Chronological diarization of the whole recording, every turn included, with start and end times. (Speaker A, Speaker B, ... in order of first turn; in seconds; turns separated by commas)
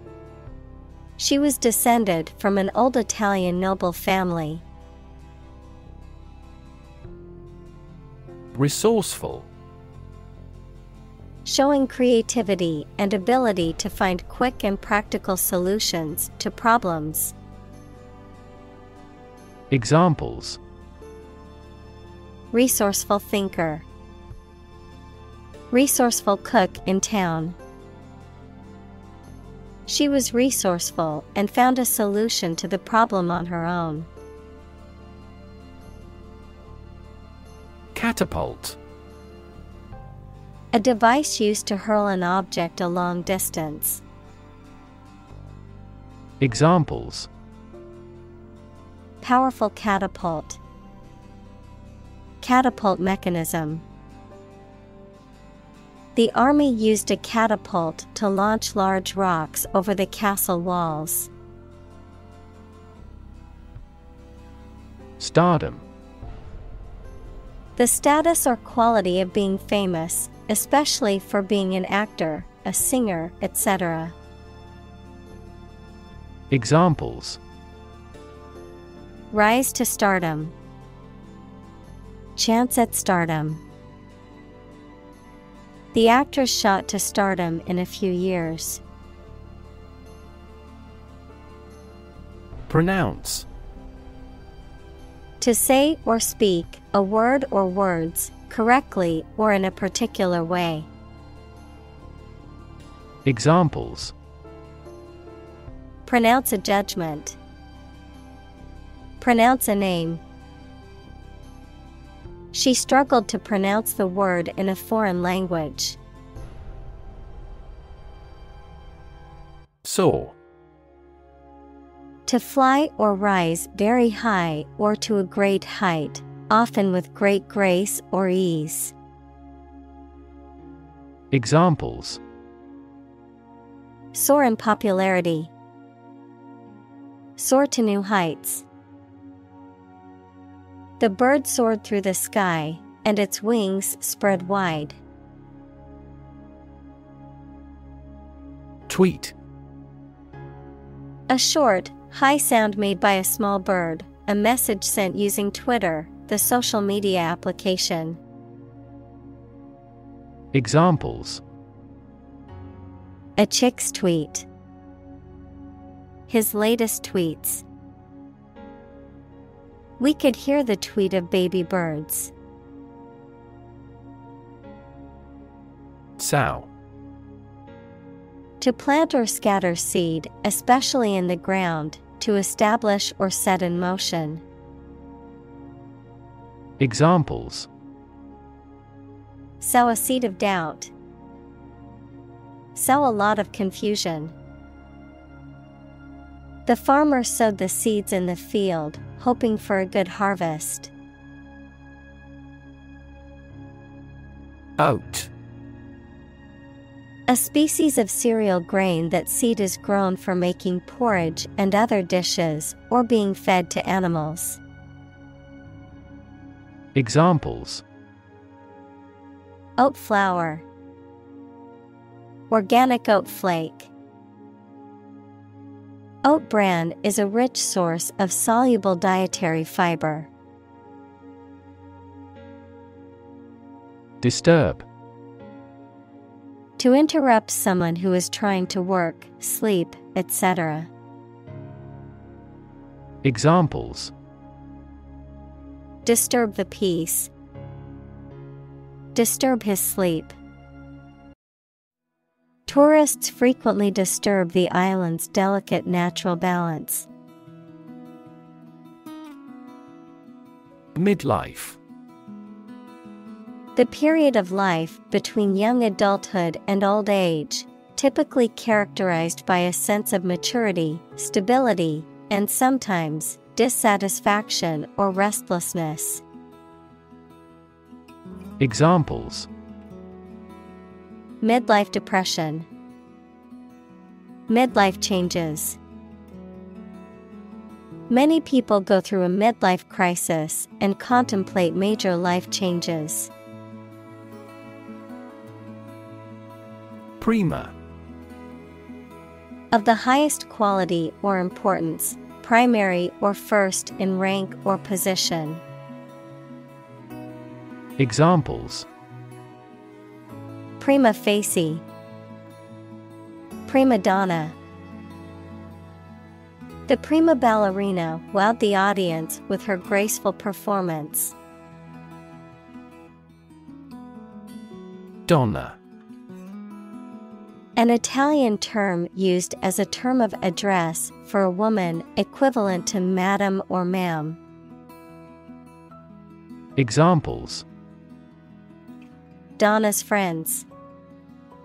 Speaker A: 1.2-4.6, Speaker B: 8.5-9.5, Speaker A: 11.4-17.4, Speaker B: 19.7-20.6, Speaker A: 22.5-23.9, Speaker A: 25.7-27.6, Speaker A: 29.9-34.1, Speaker B: 37.9-38.8, Speaker A: 40.7-44.0, Speaker B: 46.4-47.3, Speaker A: 49.2-50.6, Speaker A: 52.4-53.8, Speaker A: 56.1-61.3, Speaker B: 65.2-65.9, Speaker A: 67.8-74.2, Speaker B: 76.5-77.4, Speaker A: 79.3-80.5, Speaker A: 82.4-83.6, Speaker A: 85.9-88.8, Speaker B: 92.7-93.5, Speaker A: 95.4-100.9, Speaker B: 103.2-104.1, Speaker A: 106.1-107.4, Speaker A: 109.2-110.2, Speaker A: 112.5-116.0, Speaker B: 119.8-120.4, Speaker A: 122.3-128.9, Speaker B: 131.3-132.2, Speaker A: 134.1-135.5, Speaker A: 137.4-138.7, Speaker A: 141.0-145.0, Speaker B: 148.9-149.3, Speaker A: 151.3-158.2, Speaker B: 160.5-161.4, Speaker A: 163.4-164.5, Speaker A: 166.3-167.7, Speaker A: 170.0-172.3, Speaker B: 176.2-176.7, Speaker A: 178.6-184.4, Speaker B: 186.8-187.7, Speaker A: 189.6-190.9, Speaker A: 192.8-194.3, Speaker A: 196.7-200.9, Speaker B: 204.8-205.3, Speaker A: 207.3-214.6, Speaker B: 216.9-217.8, Speaker A: 219.8-220.7, Speaker A: 222.5-223.9, Speaker A: 226.2-230.3, Speaker B: 234.2-234.9, Speaker A: 236.8-240.9, Speaker B: 243.2-244.1, Speaker A: 246.1-247.3, Speaker A: 249.2-250.3, Speaker A: 252.7-257.1, Speaker B: 260.9-261.8, Speaker A: 263.8-276.2, Speaker B: 278.6-279.5, Speaker A: 281.4-282.7, Speaker A: 284.5-285.8, Speaker A: 288.1-293.3, Speaker B: 297.2-297.7, Speaker A: 299.7-305.6, Speaker B: 308.0-308.9, Speaker A: 310.8-311.8, Speaker A: 313.7-314.6, Speaker A: 316.9-321.3, Speaker B: 325.3-325.8, Speaker A: 327.8-334.4, Speaker B: 336.8-337.6, Speaker A: 339.6-340.7